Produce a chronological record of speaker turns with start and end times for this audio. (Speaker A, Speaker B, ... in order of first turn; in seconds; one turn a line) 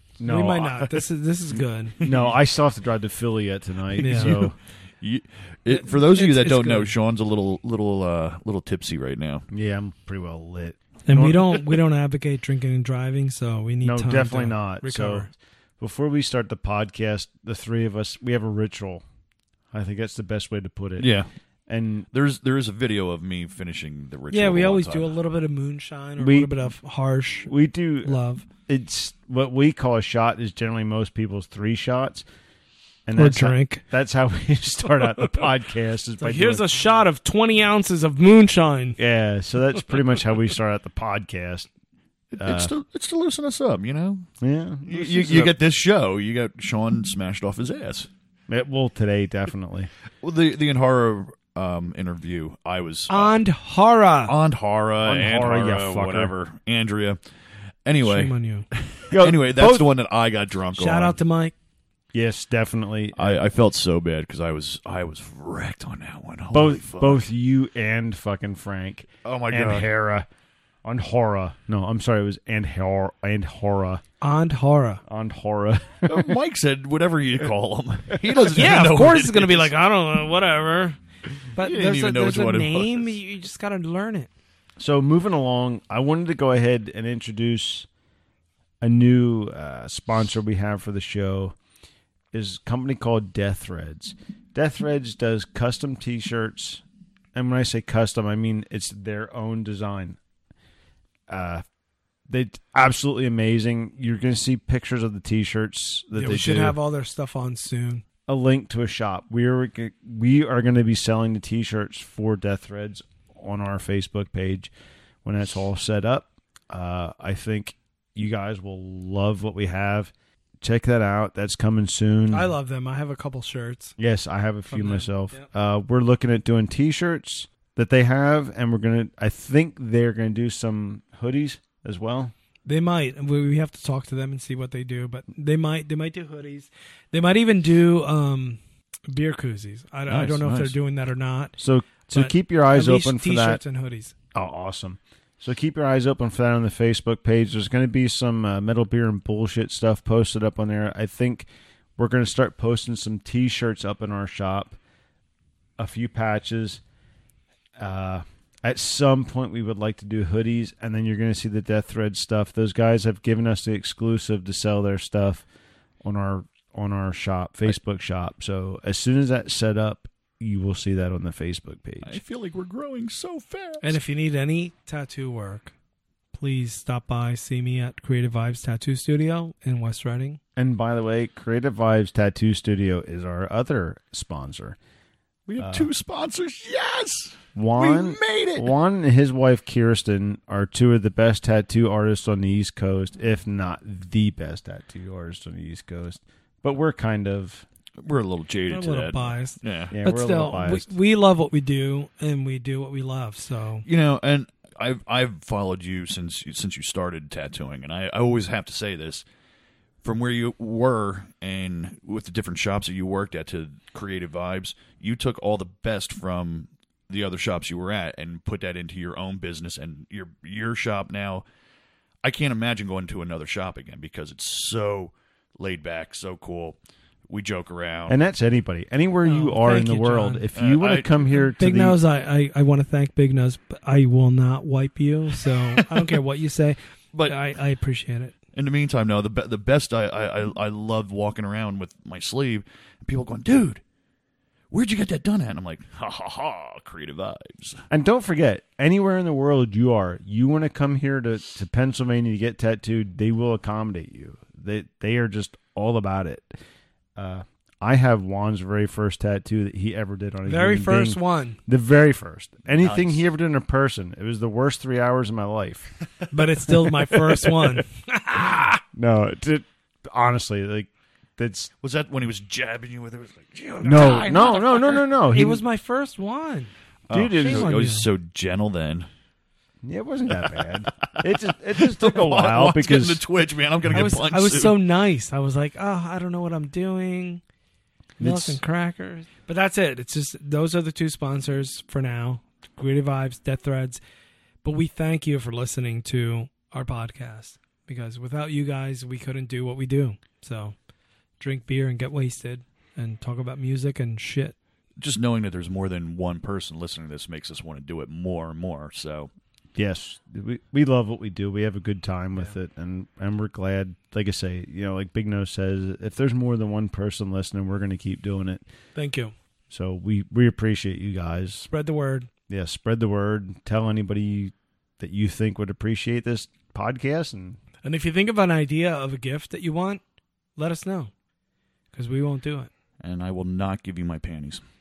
Speaker A: 0.2-0.8
Speaker B: 0.2-2.0
Speaker C: 2.0-2.3
Speaker A: 2.0-4.5
Speaker C: 4.0-9.4
Speaker B: 4.0-4.4
Speaker B: 5.7-6.9
Speaker A: 9.5-11.6
Speaker B: 11.1-15.3
Speaker A: 13.8-19.0
Speaker A: 19.7-21.1
Speaker C: 21.0-21.3
Speaker A: 21.7-22.1
Speaker C: 22.1-25.1
Speaker B: 24.3-27.5
Speaker A: 26.2-26.5
Speaker A: 27.5-32.2
Speaker B: 28.0-28.4
Speaker A: 33.0-36.6
Speaker B: 33.1-33.8
Speaker B: 36.2-39.0
Speaker A: 39.0-41.7
Speaker C: 42.3-44.3
Speaker A: 42.4-42.7
Speaker A: 44.4-45.5
Speaker C: 44.9-48.1
Speaker A: 48.5-49.9
Speaker C: 50.2-53.4
Speaker B: 53.1-54.3
Speaker C: 54.3-57.2
Speaker A: 55.0-56.3
Speaker C: 57.9-61.2
Speaker B: 58.0-58.6
Speaker A: 59.1-59.9
Speaker B: 60.8-61.5
Speaker A: 62.1-63.4
Speaker C: 63.1-67.2
Speaker A: 66.5-70.3
Speaker C: 69.2-69.9
Speaker A: 70.8-74.0
Speaker B: 74.2-75.0
Speaker A: 75.1-76.3
Speaker C: 76.1-79.7
Speaker B: 78.5-81.0
Speaker B: 81.5-84.3
Speaker C: 81.5-83.1
Speaker A: 84.8-87.9
Speaker A: 88.8-91.5
Speaker A: 92.3-96.8
Speaker A: 97.3-100.2
Speaker A: 101.3-101.6
Speaker A: 102.3-106.8
Speaker B: 106.1-108.0
Speaker A: 108.3-114.7
Speaker A: 115.2-122.5
Speaker B: 122.3-124.0
Speaker A: 124.0-132.3
Speaker B: 124.7-125.5
Speaker B: 132.7-141.6
Speaker C: 140.1-140.7
Speaker A: 141.6-143.6
Speaker B: 142.1-144.1
Speaker A: 144.3-154.8
Speaker A: 155.8-156.8
Speaker A: 157.8-165.4
Speaker A: 166.0-172.2
Speaker C: 172.0-174.0
Speaker B: 173.8-175.7
Speaker B: 176.3-180.4
Speaker A: 180.6-184.8
Speaker C: 185.5-188.7
Speaker A: 185.6-185.9
Speaker A: 187.5-197.6
Speaker C: 198.0-199.9
Speaker B: 198.7-203.8
Speaker A: 199.9-200.9
Speaker C: 203.8-209.2
Speaker C: 210.0-221.4
Speaker C: 222.2-226.8
Speaker C: 227.3-228.2
Speaker A: 228.1-232.0
Speaker B: 229.2-230.5
Speaker C: 230.5-231.5
Speaker B: 231.6-238.3
Speaker C: 235.8-236.1
Speaker C: 238.5-243.8
Speaker C: 244.7-247.8
Speaker A: 247.9-256.5
Speaker A: 257.1-266.1
Speaker B: 260.5-261.6
Speaker C: 262.7-263.2
Speaker B: 266.3-268.8
Speaker A: 266.8-267.7
Speaker A: 268.9-271.7
Speaker C: 271.8-275.0
Speaker A: 273.8-275.6
Speaker B: 275.3-276.7
Speaker C: 277.1-279.1
Speaker A: 277.1-277.7
Speaker B: 277.4-278.1
Speaker A: 279.8-283.2
Speaker C: 281.0-284.8
Speaker B: 283.9-287.4
Speaker A: 288.2-288.6
Speaker B: 288.2-294.0
Speaker B: 294.6-300.8
Speaker B: 301.4-304.6
Speaker C: 305.0-309.3
Speaker A: 309.8-318.6
Speaker B: 318.9-319.3
Speaker A: 319.7-321.7
Speaker B: 321.7-322.3
Speaker A: 322.5-327.6
Speaker B: 327.8-330.0
Speaker B: 330.6-331.1
Speaker B: 331.9-332.7
Speaker C: 333.0-334.6